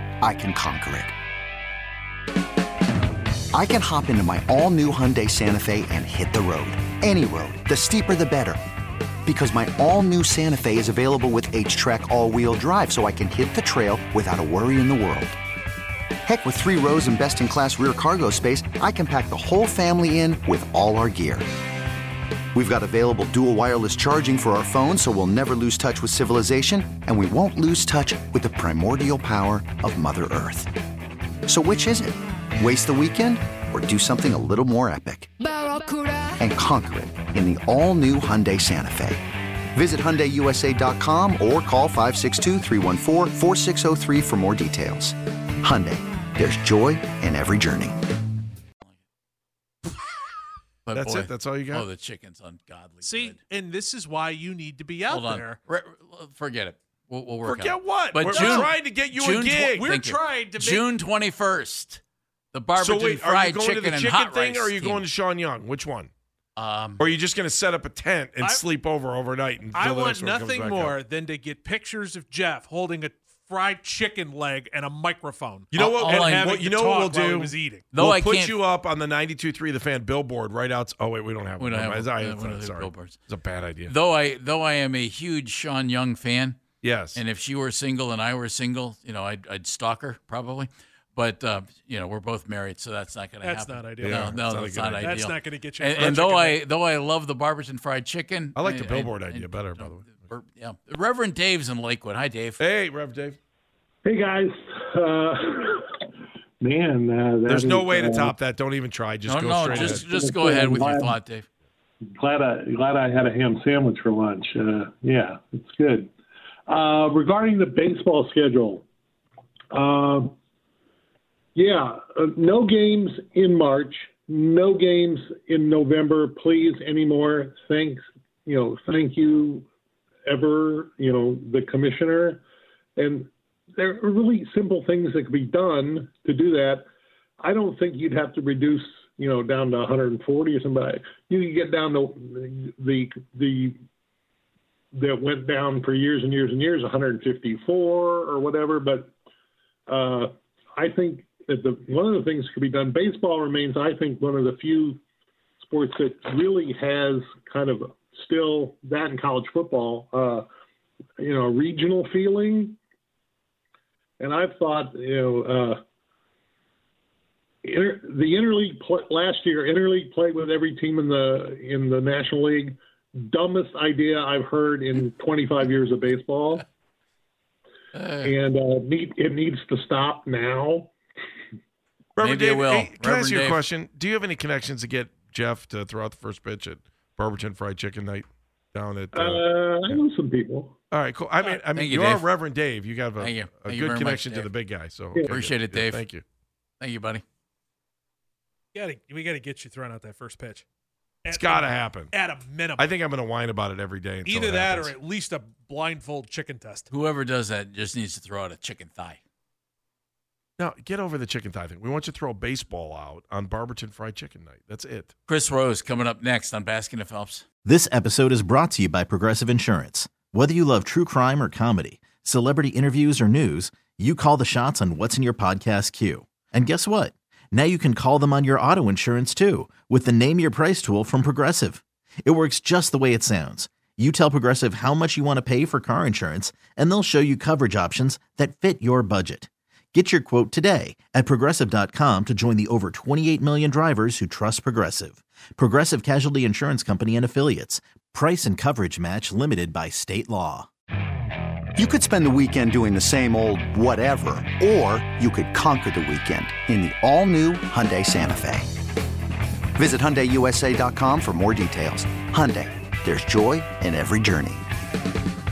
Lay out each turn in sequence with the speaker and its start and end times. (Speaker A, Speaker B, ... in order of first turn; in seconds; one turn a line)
Speaker A: 0.2-1.1
Speaker A: 3.5-8.6
Speaker A: 9.2-15.4
Speaker A: 16.3-21.5
Speaker A: 22.5-30.7
Speaker A: 31.5-35.3
Speaker A: 36.4-39.2
Speaker A: 39.7-48.0
Speaker B: 50.9-53.4
Speaker C: 50.9-51.9
Speaker D: 53.0-55.6
Speaker B: 55.1-62.0
Speaker C: 57.5-59.9
Speaker D: 58.3-58.7
Speaker D: 59.7-60.9
Speaker B: 62.5-65.0
Speaker C: 62.8-66.1
Speaker B: 66.6-67.2
Speaker C: 67.0-71.0
Speaker D: 68.4-68.7
Speaker D: 69.7-77.9
Speaker C: 75.7-83.9
Speaker B: 75.7-76.5
Speaker B: 77.9-78.6
Speaker B: 81.6-83.2
Speaker B: 83.9-86.6
Speaker C: 86.8-87.2
Speaker B: 87.2-102.6
Speaker D: 93.4-96.6
Speaker C: 94.0-95.0
Speaker C: 98.6-100.2
Speaker C: 102.6-103.4
Speaker E: 104.0-106.0
Speaker E: 106.6-108.3
Speaker C: 107.5-110.1
Speaker B: 109.3-111.5
Speaker E: 109.7-111.2
Speaker E: 112.2-116.1
Speaker E: 116.7-118.8
Speaker E: 119.7-120.3
Speaker E: 121.6-129.7
Speaker E: 130.3-132.4
Speaker E: 133.0-136.8
Speaker E: 137.4-143.8
Speaker E: 144.9-149.1
Speaker E: 149.9-155.0
Speaker E: 155.7-160.5
Speaker E: 161.2-162.8
Speaker E: 164.2-165.8
Speaker E: 167.6-176.7
Speaker B: 177.9-178.3
Speaker E: 178.2-180.9
Speaker C: 182.2-190.0
Speaker B: 182.2-183.6
Speaker E: 189.1-190.7
Speaker C: 190.9-196.2
Speaker B: 191.7-192.3
Speaker B: 193.2-194.5
Speaker B: 195.2-196.1
Speaker B: 196.8-197.2
Speaker D: 198.7-200.6
Speaker D: 201.2-202.9
Speaker C: 201.3-202.2
Speaker C: 202.8-204.9
Speaker D: 204.3-206.9
Speaker B: 206.9-209.2
Speaker C: 210.6-215.1
Speaker B: 215.3-217.5
Speaker F: 217.7-250.7
Speaker A: 251.8-258.7
Speaker A: 259.8-264.7